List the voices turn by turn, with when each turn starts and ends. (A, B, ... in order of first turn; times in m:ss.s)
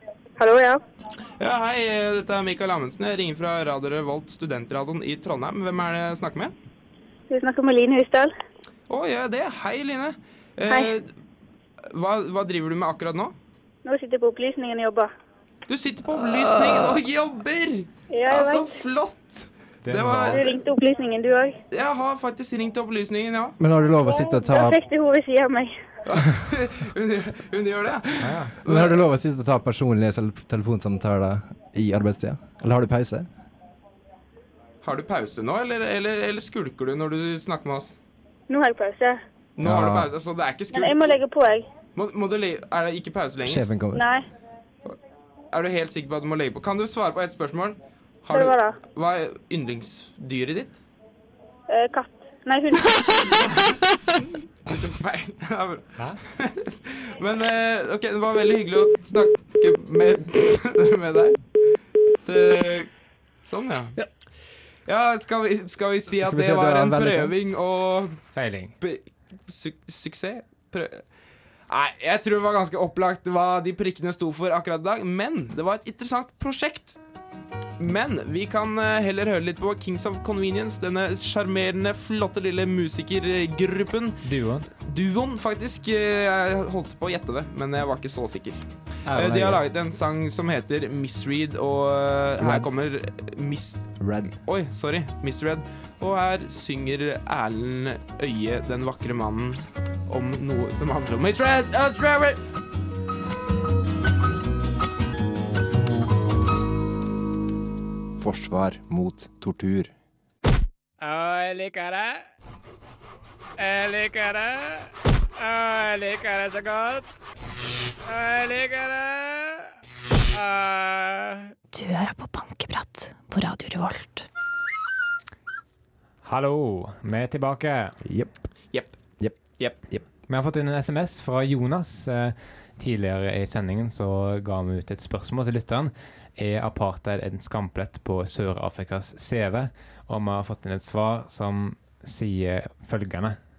0:00.4-0:00.8 A
0:01.4-0:06.5 B
0:07.3-0:08.3 A
0:08.9-0:11.1 B
0:11.9-0:13.3 B
0:13.8-0:15.1 A
0:15.7-0:20.6 B
0:16.3-0:16.9 C
0:18.1-0:18.7 A
0:19.8-0:20.4 D
0:20.3-0:21.6 A
0:21.7-0:23.6 B
0:23.6-0:24.8 C
0:24.0-0:25.8 A
0:26.0-0:29.0 B
0:28.2-0:28.6 D
0:28.6-0:33.3 C
0:34.8-0:37.9 B
0:38.5-0:39.2 A
0:39.6-0:41.1 B
0:39.6-0:40.1 C
0:40.7-0:41.7 A
0:41.9-0:43.6 B
0:43.4-0:44.0 C
0:43.9-0:44.2 A
0:45.5-0:50.8 B
0:48.3-0:48.8 A
0:51.7-0:53.5 A
0:54.7-1:01.4 B
1:02.2-1:02.9 B
1:03.4-1:04.0 B
1:04.9-1:08.2 B
1:06.2-1:07.3 C
1:08.3-1:08.7 D
1:08.8-1:11.0 B
1:11.7-1:17.0 B
1:17.8-1:33.8 B
1:24.2-1:24.7 D
1:29.0-1:29.6 D
1:32.4-1:32.7 C
1:34.0-1:34.3 C
1:34.4-1:42.4 B
1:48.2-1:49.9 C
1:51.0-1:52.2 D
1:53.6-1:57.0 D
1:58.0-1:59.7 D
2:00.3-2:01.5 D
2:01.7-2:04.2 E
2:06.2-2:08.0 D
2:08.0-2:08.4 C
2:10.3-2:23.4 D